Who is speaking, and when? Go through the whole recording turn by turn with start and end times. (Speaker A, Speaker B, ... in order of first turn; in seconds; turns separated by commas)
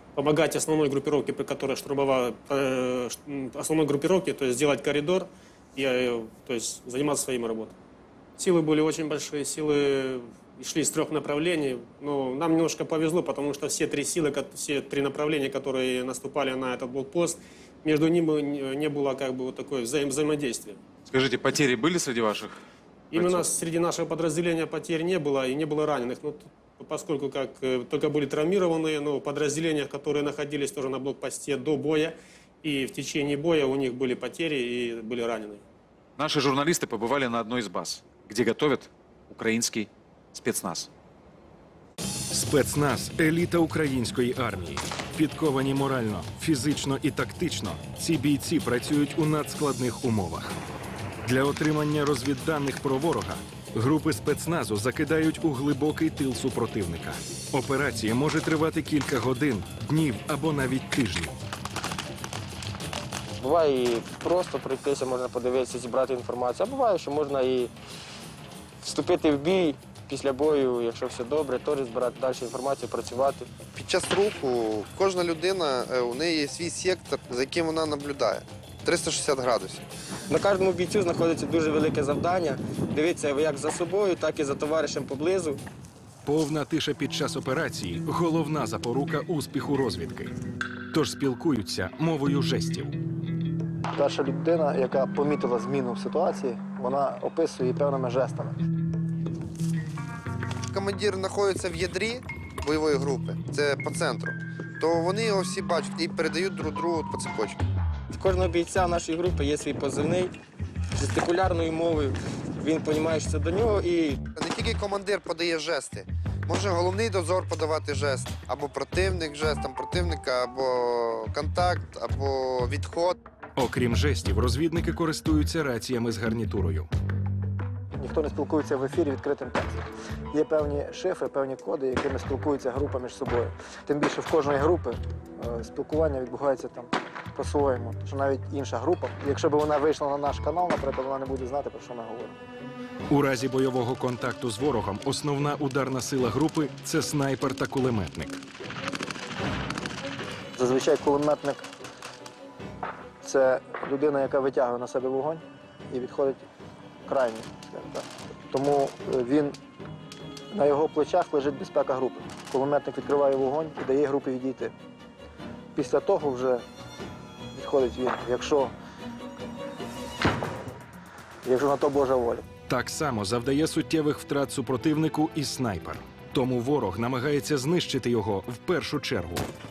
Speaker A: 0.1-7.8, Speaker A: 8.4-20.8, Speaker B: 21.1-22.6, Speaker A: 23.1-35.6, Speaker B: 23.1-23.5, Speaker B: 36.2-40.9, Speaker C: 42.3-50.6, Speaker C: 51.2-61.3, Speaker D: 63.4-67.7, Speaker D: 68.8-73.6, Speaker E: 73.7-79.9, Speaker D: 80.3-85.6, Speaker C: 86.2-90.4, Speaker C: 90.9-93.0, Speaker F: 93.9-98.6, Speaker E: 100.7-107.6, Speaker D: 108.1-110.3, Speaker D: 111.0-114.2, Speaker E: 114.4-123.2, Speaker C: 123.6-126.9, Speaker F: 128.0-129.8, Speaker F: 130.3-142.4, Speaker C: 143.1-148.4, Speaker F: 150.6-151.7, Speaker F: 153.2-156.4, Speaker F: 157.1-159.6, Speaker F: 160.5-164.7, Speaker F: 165.8-166.6, Speaker F: 167.5-168.7, Speaker F: 171.4-172.4, Speaker C: 172.7-179.5